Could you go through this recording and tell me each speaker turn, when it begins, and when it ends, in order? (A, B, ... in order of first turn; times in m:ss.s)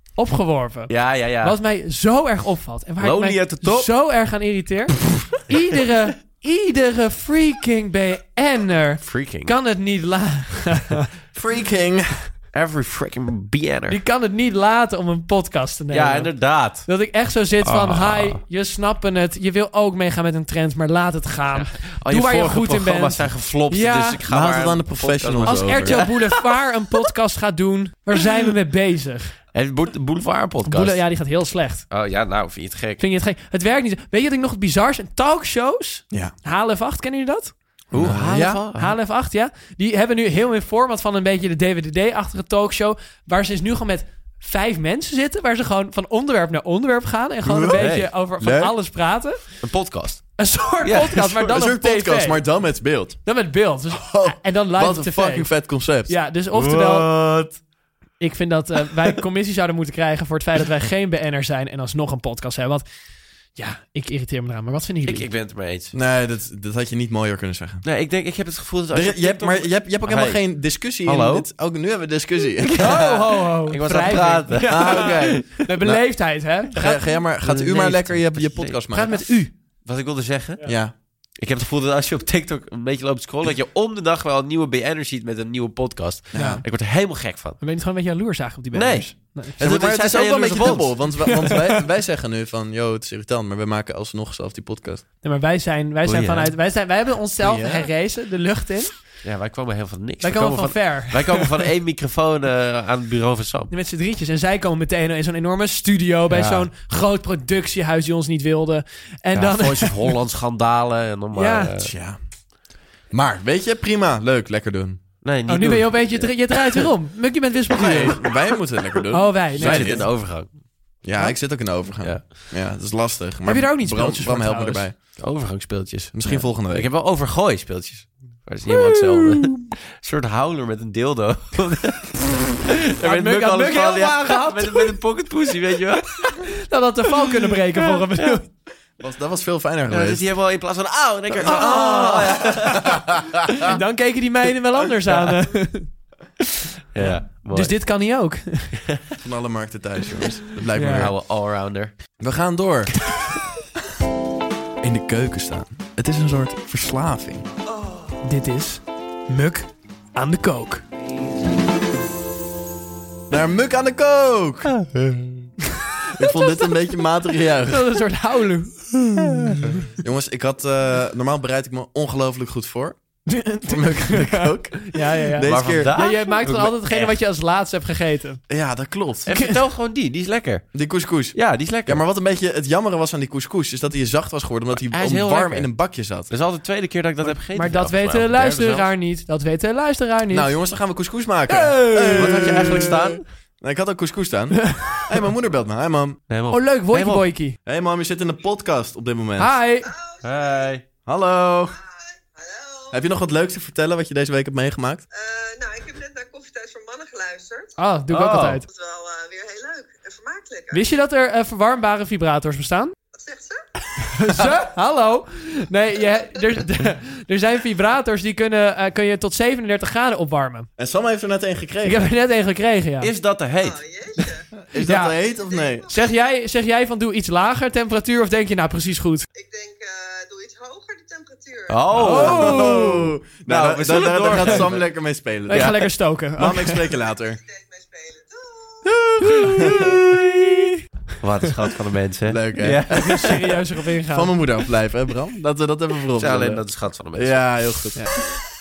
0:00.2-0:11.0 A
0:00.9-0:01.6 B
0:03.0-0:03.9 B
0:09.0-0:09.5 B
0:11.3-0:12.3 C
0:12.5-0:14.0 B
0:13.9-0:24.2 A
0:15.9-0:16.9 B
0:17.6-0:18.4 B
0:21.5-0:26.4 B
0:24.3-0:26.1 C
0:25.4-0:29.3 A
0:29.5-0:31.0 B
0:30.6-0:31.8 A
0:31.9-0:33.0 B
0:33.0-0:37.5 A
0:37.9-0:38.6 C
0:37.9-0:39.0 B
0:38.7-0:49.6 A
0:47.4-0:48.7 C
0:47.7-0:48.1 B
0:49.6-0:51.5 B
0:50.4-0:52.5 A
0:51.4-0:53.2 C
0:53.2-0:55.5 A
0:53.9-0:56.1 C
0:56.0-0:57.1 A
0:56.5-0:57.6 B
0:58.2-1:02.8 A
1:03.5-1:05.3 A
1:05.0-1:05.9 B
1:05.9-1:07.8 C
1:07.8-1:11.5 B
1:08.9-1:13.2 C
1:12.7-1:15.6 B
1:12.8-1:17.0 A
1:14.6-1:16.1 C
1:16.6-1:19.2 C
1:17.4-1:19.3 B
1:18.9-1:19.5 A
1:19.8-1:20.6 B
1:20.6-1:20.9 C
1:21.4-1:27.6 B
1:26.3-1:26.6 C
1:26.3-1:26.6 A
1:27.6-1:29.6 A
1:28.7-1:31.2 B
1:29.6-1:35.0 C
1:31.2-1:31.7 A
1:35.2-1:38.9 A
1:36.0-1:36.5 B
1:37.4-1:37.9 C
1:39.2-1:43.7 B
1:40.2-1:41.5 A
1:43.7-1:50.2 A
1:46.3-1:46.7 B
1:49.3-1:51.9 B
1:51.3-1:51.7 A
1:51.8-1:52.2 C
1:53.1-1:55.0 C
1:55.2-1:56.9 B
1:55.5-1:58.2 A
1:57.8-2:00.3 C
1:57.8-1:59.0 B
1:59.1-2:00.2 A
1:59.5-2:00.5 B
2:01.0-2:05.0 C
2:02.0-2:02.3 B
2:03.4-2:04.8 A
2:05.2-2:16.3 B
2:06.1-2:06.9 C
2:09.4-2:09.7 A
2:13.0-2:14.9 A
2:16.4-2:18.5 A
2:19.0-2:20.2 C
2:19.9-2:23.0 B
2:21.4-2:23.7 C
2:21.4-2:22.8 A
2:23.6-2:25.9 A
2:25.1-2:25.4 B
2:26.9-2:27.8 B
2:27.0-2:28.8 A
2:29.2-2:31.1 C
2:30.7-2:31.1 A
2:30.9-2:31.9 B
2:32.2-2:32.9 C
2:34.8-2:37.5 C
2:38.2-2:40.8 A
2:43.3-2:44.7 C
2:46.2-2:47.9 C
2:46.2-2:46.7 A
2:47.7-2:49.7 A
2:50.0-2:55.9 C
2:53.3-2:58.4 A
2:55.4-2:57.2 B
2:58.5-2:59.3 C
2:59.2-3:00.7 B
2:59.3-2:59.6 A
3:00.7-3:06.3 C
3:01.3-3:02.0 B
3:04.9-3:05.8 B
3:06.3-3:08.9 B
3:07.2-3:10.5 A
3:10.3-3:16.2 C
3:11.5-3:12.9 A
3:12.1-3:13.2 B
3:14.7-3:15.0 A
3:16.3-3:17.2 B
3:16.5-3:17.6 A
3:17.6-3:19.5 C
3:19.4-3:19.9 A
3:19.8-3:20.7 D
3:20.2-3:20.8 B
3:21.0-3:21.8 C
3:21.7-3:23.0 D
3:22.9-3:25.0 C
3:25.1-3:27.8 D
3:27.8-3:28.6 A
3:28.1-3:28.6 B
3:28.6-3:31.0 D
3:30.7-3:32.9 A
3:33.1-3:33.6 D
3:34.0-3:40.7 A
3:40.8-3:42.1 C
3:41.8-3:43.1 A
3:43.0-3:43.8 B
3:43.6-3:44.5 D
3:44.7-3:45.9 C
3:44.8-3:45.2 A
3:45.4-3:46.1 D
3:45.9-3:49.2 A
3:49.3-3:51.8 D
3:51.7-3:52.9 B
3:52.0-3:53.1 A
3:52.0-3:55.8 C
3:53.4-3:54.9 B
3:55.5-3:56.9 A
3:55.5-3:55.8 B
3:56.4-3:57.4 C
3:57.3-3:58.9 D
3:59.2-3:59.9 C
3:59.2-4:03.5 B
4:02.3-4:03.3 C
4:02.9-4:04.3 A
4:04.1-4:08.2 C
4:06.2-4:07.8 B